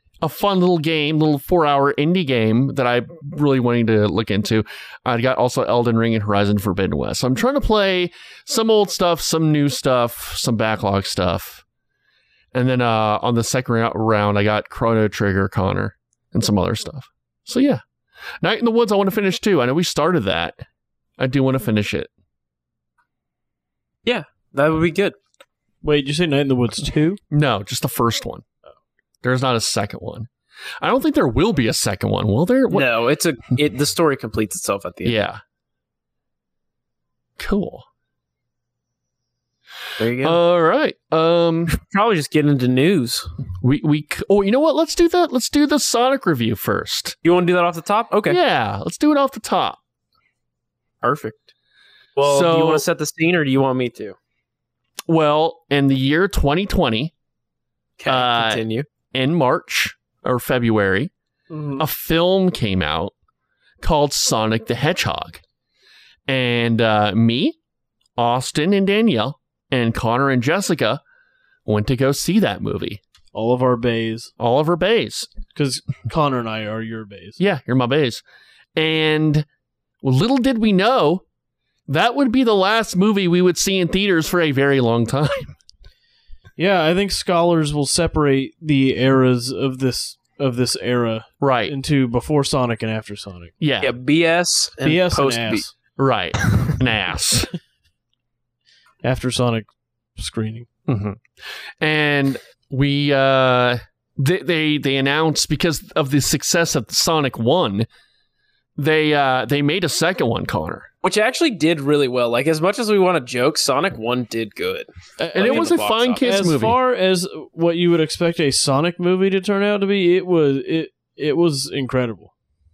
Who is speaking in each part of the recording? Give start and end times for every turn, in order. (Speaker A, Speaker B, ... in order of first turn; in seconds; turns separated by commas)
Speaker A: 0.2-11.6, Speaker A: 12.5-17.8, Speaker A: 18.4-20.6, Speaker A: 21.2-22.1, Speaker B: 24.0-25.1, Speaker C: 25.8-27.2, Speaker A: 27.3-28.4, Speaker A: 29.2-30.3, Speaker A: 30.8-32.9, Speaker B: 32.7-35.2, Speaker A: 35.0-35.4, Speaker A: 37.4-37.8, Speaker B: 40.0-40.4, Speaker A: 40.2-41.8, Speaker B: 41.7-43.3, Speaker A: 43.6-47.1, Speaker B: 47.2-48.4, Speaker A: 48.3-49.8, Speaker B: 51.0-51.5, Speaker B: 52.2-54.1, Speaker A: 52.2-52.8, Speaker A: 55.1-57.1, Speaker B: 58.0-58.9, Speaker A: 58.0-61.1, Speaker C: 61.5-61.8, Speaker A: 61.8-63.1, Speaker A: 63.8-65.4, Speaker A: 66.3-67.6, Speaker A: 68.2-71.0, Speaker A: 71.7-73.0, Speaker C: 73.3-74.3, Speaker A: 74.4-75.3, Speaker C: 75.5-77.4, Speaker A: 77.4-78.2, Speaker A: 78.8-79.5, Speaker A: 80.0-81.2, Speaker A: 81.9-85.5, Speaker C: 86.6-93.5, Speaker A: 91.4-91.7, Speaker A: 93.6-93.9, Speaker B: 93.8-95.6, Speaker C: 94.8-95.7, Speaker A: 96.0-97.5, Speaker C: 99.0-100.7, Speaker A: 100.9-101.2, Speaker A: 101.8-107.9, Speaker A: 108.8-110.9, Speaker B: 111.0-116.3, Speaker C: 115.2-122.3, Speaker A: 115.3-116.8